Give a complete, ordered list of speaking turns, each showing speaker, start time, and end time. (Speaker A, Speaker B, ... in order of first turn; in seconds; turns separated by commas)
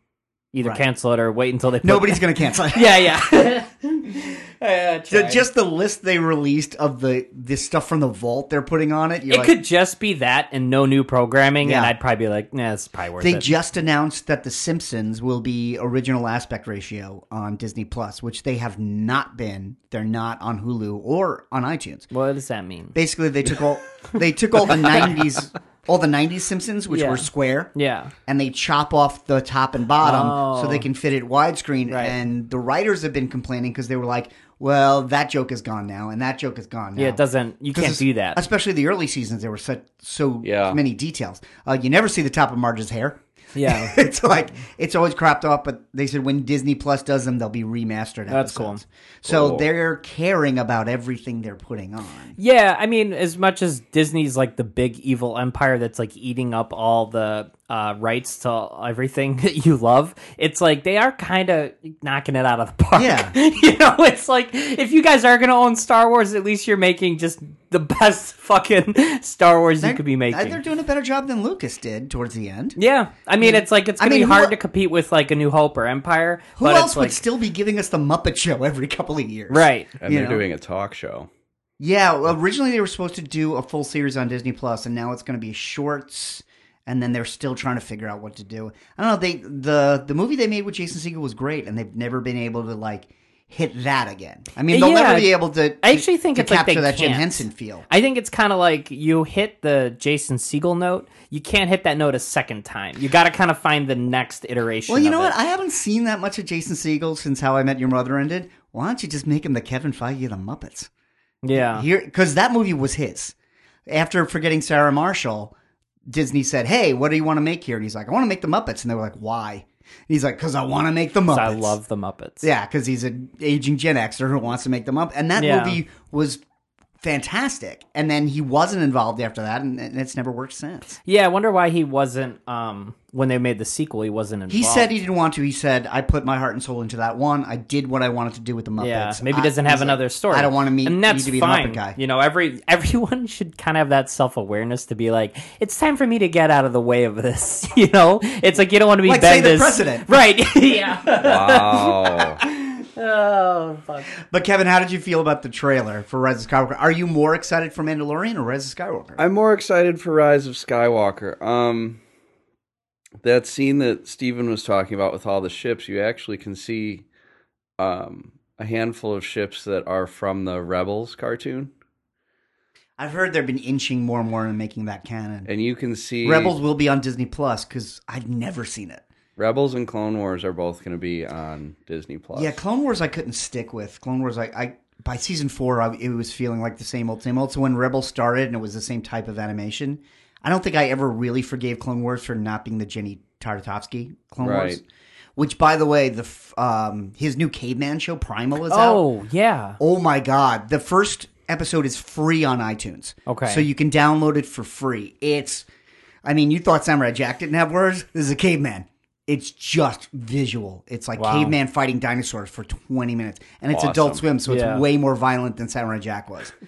Speaker A: 0.5-5.5, Speaker B: 1.8-3.2, Speaker B: 5.1-9.6, Speaker A: 9.3-13.5, Speaker B: 11.6-11.9, Speaker B: 13.2-22.1, Speaker A: 22.1-22.9, Speaker B: 22.9-27.7, Speaker A: 26.9-28.1, Speaker B: 28.3-37.2, Speaker A: 30.0-30.9, Speaker A: 31.9-32.2, Speaker A: 37.0-38.4, Speaker B: 37.7-52.4, Speaker C: 40.4-40.8, Speaker A: 43.5-44.0, Speaker A: 48.3-48.8, Speaker C: 49.3-49.7, Speaker A: 52.4-70.6, Speaker B: 63.0-63.4, Speaker B: 69.8-72.8, Speaker A: 72.8-77.2, Speaker B: 73.4-74.6, Speaker B: 76.6-80.5, Speaker A: 79.5-79.9, Speaker C: 80.0-81.3, Speaker B: 81.8-97.9, Speaker A: 94.7-105.4, Speaker B: 104.9-110.9, Speaker A: 111.4-111.9, Speaker B: 111.5-113.3, Speaker B: 113.9-115.5, Speaker B: 116.1-121.8, Speaker A: 121.3-122.5, Speaker B: 122.4-126.4, Speaker A: 125.4-125.8, Speaker B: 127.0-131.0, Speaker A: 131.1-134.9, Speaker B: 134.5-142.0, Speaker A: 138.8-154.1, Speaker B: 149.1-150.1, Speaker C: 151.2-152.4, Speaker B: 154.3-159.2, Speaker C: 159.2-162.0, Speaker C: 163.2-167.1, Speaker C: 167.8-171.7, Speaker B: 173.0-175.5, Speaker C: 175.5-176.6, Speaker B: 176.2-179.1, Speaker C: 179.4-182.6, Speaker B: 182.3-194.8, Speaker C: 194.4-194.8, Speaker B: 195.4-199.1, Speaker A: 198.7-199.8, Speaker B: 199.8-205.7, Speaker A: 203.3-203.7, Speaker B: 206.2-216.6, Speaker A: 211.2-211.6, Speaker C: 213.7-214.2, Speaker A: 214.5-214.8